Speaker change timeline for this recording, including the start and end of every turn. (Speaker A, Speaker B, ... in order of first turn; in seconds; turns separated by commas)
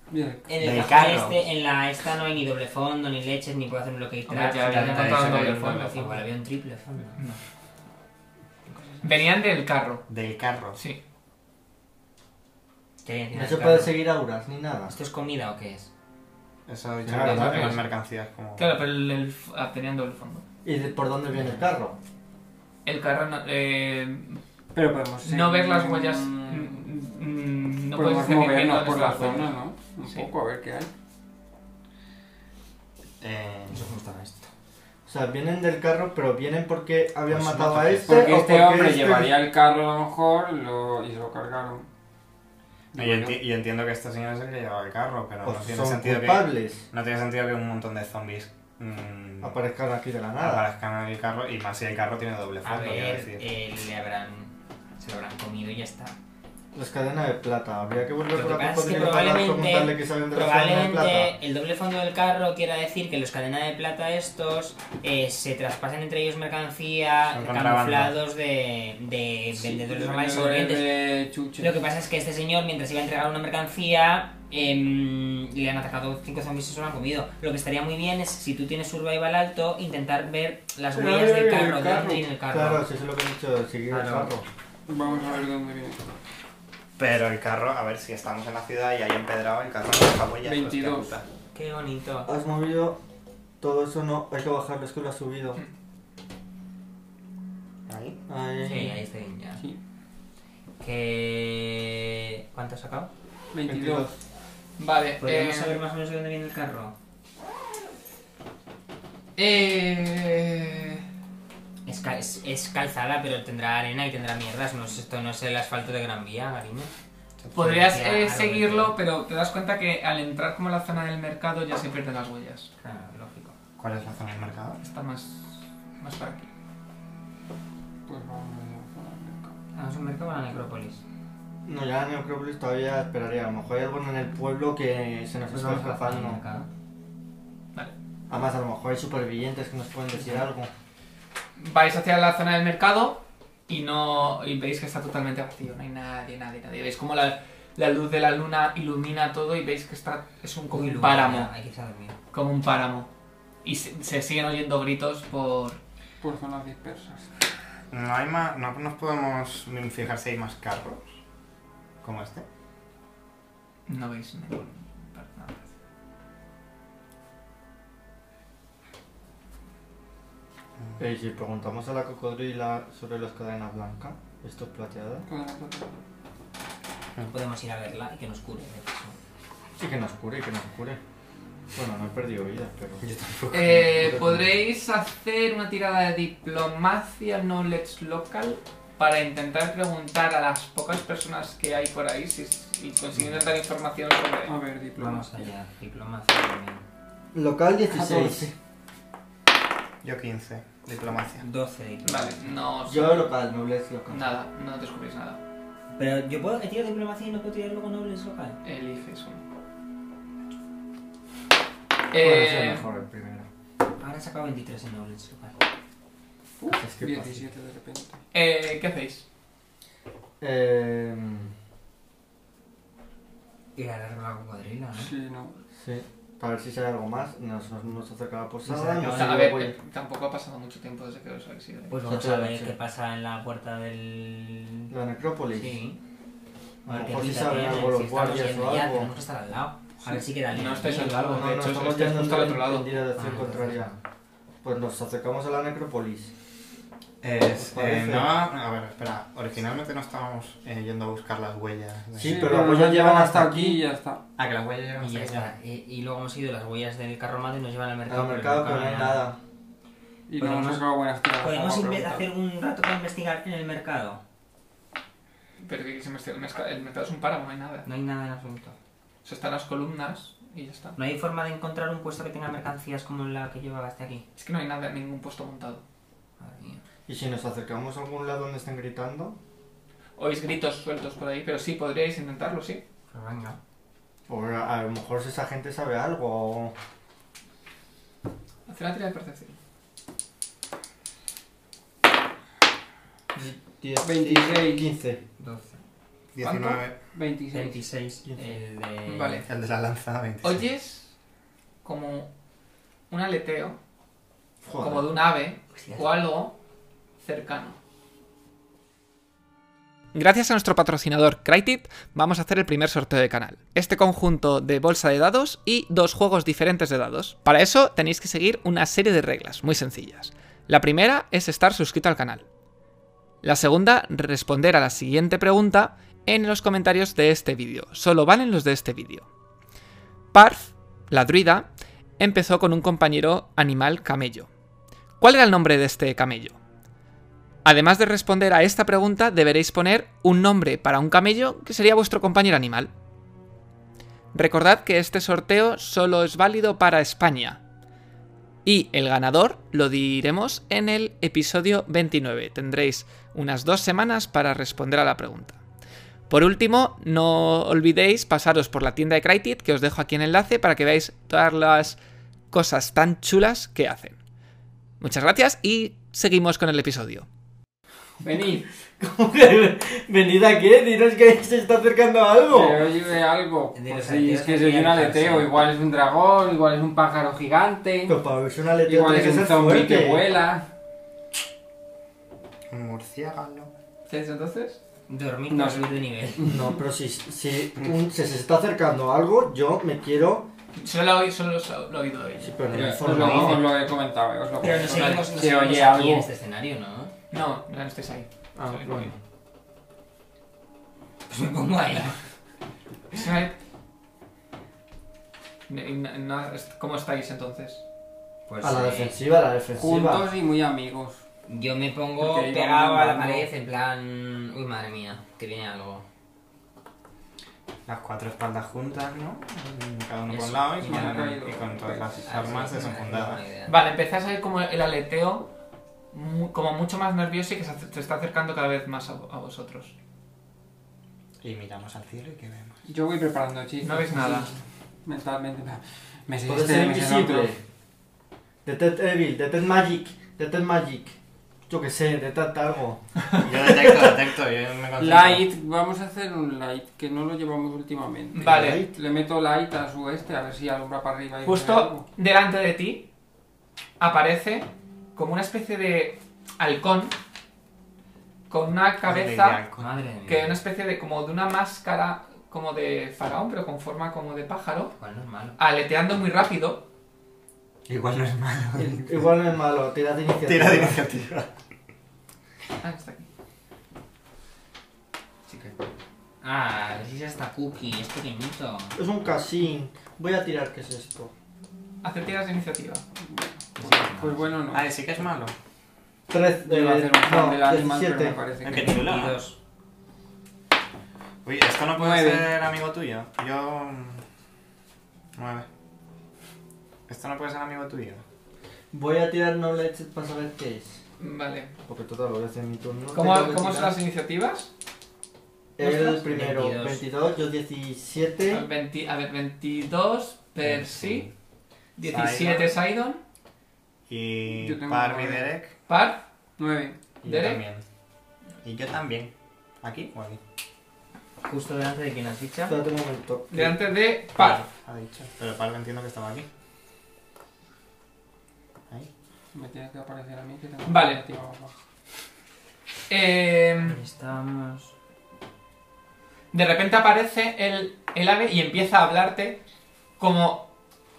Speaker A: 0.1-0.5, Speaker B: 0.5-7.2, Speaker C: 0.6-1.4, Speaker D: 4.3-6.2, Speaker C: 4.7-5.9, Speaker B: 8.7-9.1, Speaker D: 9.0-10.1, Speaker C: 10.1-10.8, Speaker B: 13.0-14.0, Speaker E: 13.3-14.9, Speaker B: 14.9-15.9, Speaker C: 16.7-18.7, Speaker E: 17.0-17.8, Speaker D: 17.2-17.9, Speaker D: 18.6-20.4, Speaker E: 20.6-22.0, Speaker D: 22.9-24.4, Speaker A: 24.7-26.9, Speaker D: 25.2-30.3, Speaker A: 27.9-30.9, Speaker C: 33.2-33.9, Speaker B: 33.7-34.5, Speaker E: 35.1-39.3, Speaker C: 37.3-38.2, Speaker A: 38.1-41.9, Speaker A: 42.9-43.4, Speaker C: 43.0-49.6, Speaker E: 45.4-46.9, Speaker E: 49.4-50.7, Speaker C: 50.4-53.4, Speaker B: 52.6-56.1, Speaker E: 56.7-61.4, Speaker B: 58.3-70.9, Speaker C: 67.3-68.2, Speaker A: 69.6-71.8, Speaker B: 71.6-82.8, Speaker A: 80.9-82.2, Speaker E: 82.5-84.5, Speaker B: 83.9-84.3, Speaker A: 84.9-86.0, Speaker C: 87.0-91.2, Speaker A: 90.4-91.1, Speaker B: 91.5-92.3, Speaker E: 92.3-93.0, Speaker E: 93.6-95.6, Speaker C: 97.9-98.2, Speaker E: 98.3-99.0, Speaker B: 98.6-99.6, Speaker B: 100.8-103.1, Speaker A: 103.5-104.1, Speaker E: 103.7-104.2, Speaker D: 104.8-105.8, Speaker B: 105.2-107.0, Speaker D: 109.4-111.0, Speaker B: 111.9-116.9, Speaker C: 117.4-117.8, Speaker D: 117.5-122.7, Speaker B: 117.6-119.0, Speaker B: 122.8-123.5, Speaker C: 123.8-124.8, Speaker D: 124.8-126.5, Speaker A: 128.1-129.6, Speaker B: 129.8-131.0, Speaker E: 131.7-136.4, Speaker B: 135.5-136.7, Speaker E: 138.3-140.7, Speaker D: 141.6-151.5, Speaker B: 150.7-152.2, Speaker D: 152.3-153.1, Speaker D: 153.6-155.8, Speaker A: 156.2-157.3, Speaker C: 157.9-161.2, Speaker C: 162.0-162.4, Speaker D: 163.9-165.7, Speaker E: 171.0-175.3, Speaker A: 175.3-176.0, Speaker B: 177.3-179.2, Speaker E: 179.8-181.0, Speaker E: 181.8-183.0, Speaker C: 183.0-184.3, Speaker D: 183.5-194.6, Speaker E: 184.0-184.5, Speaker A: 194.5-195.5, Speaker B: 195.0-196.8, Speaker E: 197.3-198.5, Speaker A: 197.9-198.4, Speaker C: 200.0-201.4, Speaker B: 201.4-202.5, Speaker D: 202.0-203.3, Speaker E: 202.9-204.3, Speaker D: 204.1-205.4, Speaker B: 206.0-208.6, Speaker D: 208.6-209.4, Speaker D: 212.1-212.8, Speaker E: 212.1-213.5, Speaker B: 214.0-215.6, Speaker A: 216.6-218.2, Speaker E: 216.7-217.5, Speaker D: 218.3-219.3, Speaker E: 220.4-221.5, Speaker B: 223.8-225.1, Speaker A: 225.0-225.6, Speaker E: 225.8-229.8, Speaker B: 228.7-229.5, Speaker D: 229.0-231.9, Speaker B: 231.9-234.9, Speaker E: 232.0-232.8, Speaker E: 234.9-235.8, Speaker B: 235.5-236.0, Speaker E: 236.8-239.1, Speaker B: 236.9-241.6, Speaker D: 240.5-242.9, Speaker E: 241.3-244.0, Speaker B: 243.1-244.0, Speaker E: 244.6-246.3, Speaker C: 247.2-252.7, Speaker E: 247.6-248.3, Speaker E: 252.2-253.8, Speaker A: 252.2-254.2, Speaker C: 254.4-255.5, Speaker B: 255.0-259.3, Speaker E: 258.1-259.4, Speaker A: 260.3-262.2, Speaker B: 260.4-260.9, Speaker B: 261.4-264.2, Speaker D: 265.6-267.9, Speaker B: 267.9-268.8, Speaker D: 269.2-271.0, Speaker B: 271.0-274.2, Speaker D: 274.4-275.8, Speaker B: 276.4-276.8, Speaker E: 277.1-279.4, Speaker D: 280.2-282.8, Speaker B: 283.1-283.6, Speaker E: 284.3-286.7, Speaker D: 288.7-289.6, Speaker E: 293.4-295.2, Speaker A: 294.0-294.9, Speaker B: 295.4-295.8, Speaker C: 296.4-297.0, Speaker D: 296.4-296.8, Speaker A: 297.1-297.8, Speaker B: 297.5-299.4, Speaker D: 299.1-299.5, Speaker C: 299.4-300.6, Speaker D: 300.4-301.1, Speaker D: 301.8-302.3, Speaker D: 303.1-303.8, Speaker E: 304.6-305.1, Speaker D: 304.8-306.6, Speaker B: 305.8-306.1, Speaker D: 307.2-307.8, Speaker D: 310.1-322.4, Speaker D: 323.4-329.3, Speaker D: 330.3-334.5, Speaker D: 335.2-336.6, Speaker D: 337.6-342.9, Speaker D: 344.3-347.6, Speaker D: 348.6-355.6, Speaker D: 356.3-362.0, Speaker D: 362.5-364.2, Speaker D: 365.0-367.3, Speaker A: 368.2-368.7, Speaker E: 369.0-372.8, Speaker A: 372.5-378.2, Speaker B: 373.7-375.7, Speaker E: 378.1-380.3, Speaker A: 378.9-380.7, Speaker C: 382.7-383.7, Speaker D: 384.1-384.8, Speaker B: 385.1-386.4, Speaker A: 385.5-386.6, Speaker E: 386.4-390.5, Speaker D: 390.8-392.5, Speaker E: 392.4-393.7, Speaker A: 392.7-396.3, Speaker B: 393.0-393.7, Speaker B: 394.6-397.1, Speaker D: 394.9-395.3, Speaker D: 397.3-399.1, Speaker E: 398.6-399.2, Speaker B: 401.3-402.2, Speaker D: 403.1-403.6, Speaker D: 405.7-407.8, Speaker B: 408.5-409.2, Speaker E: 408.6-410.3, Speaker A: 409.8-411.2, Speaker B: 411.5-416.1, Speaker A: 412.2-413.5, Speaker C: 417.9-423.4, Speaker B: 420.3-421.4, Speaker A: 420.9-422.2, Speaker B: 422.2-423.8, Speaker D: 423.7-425.5, Speaker D: 426.1-429.9, Speaker C: 431.4-432.8, Speaker A: 432.9-437.5, Speaker D: 433.8-434.5, Speaker E: 436.4-437.6, Speaker E: 438.6-441.2, Speaker E: 441.7-443.0, Speaker C: 443.4-445.4, Speaker A: 445.0-452.0, Speaker D: 448.3-448.8, Speaker E: 448.4-449.0, Speaker D: 451.4-453.1, Speaker D: 454.0-457.1, Speaker D: 458.5-459.6, Speaker C: 459.1-459.9, Speaker B: 459.8-460.6, Speaker D: 460.3-464.9, Speaker B: 465.0-465.6, Speaker D: 465.6-466.9, Speaker C: 467.9-469.2, Speaker E: 468.8-471.0, Speaker C: 470.4-471.5, Speaker D: 472.8-473.3, Speaker B: 475.5-475.8, Speaker B: 476.4-479.0, Speaker E: 478.9-481.3, Speaker D: 482.0-483.1, Speaker A: 483.2-484.9, Speaker B: 483.8-484.5, Speaker C: 484.7-485.5, Speaker E: 486.3-488.4, Speaker A: 486.6-489.1, Speaker C: 488.6-489.4, Speaker B: 488.8-489.6, Speaker C: 491.4-494.2, Speaker A: 491.9-492.5, Speaker C: 495.4-495.7, Speaker C: 497.1-498.2, Speaker E: 498.9-501.0, Speaker D: 501.2-501.7, Speaker E: 501.9-504.0, Speaker D: 503.1-504.7, Speaker E: 505.8-508.7, Speaker B: 505.8-507.0, Speaker D: 508.5-511.3, Speaker C: 510.6-511.3, Speaker D: 512.0-513.2, Speaker C: 512.0-512.7, Speaker C: 514.1-515.7, Speaker A: 514.5-515.5, Speaker D: 515.9-516.2, Speaker A: 516.6-517.0, Speaker C: 517.2-517.8, Speaker D: 517.2-517.6, Speaker C: 518.6-520.4, Speaker B: 521.5-522.8, Speaker E: 522.7-523.8, Speaker D: 523.5-524.7, Speaker C: 524.4-526.5, Speaker A: 529.5-531.8, Speaker D: 530.9-531.2, Speaker D: 533.1-534.0, Speaker B: 533.8-534.9, Speaker D: 536.5-539.6, Speaker D: 540.2-540.7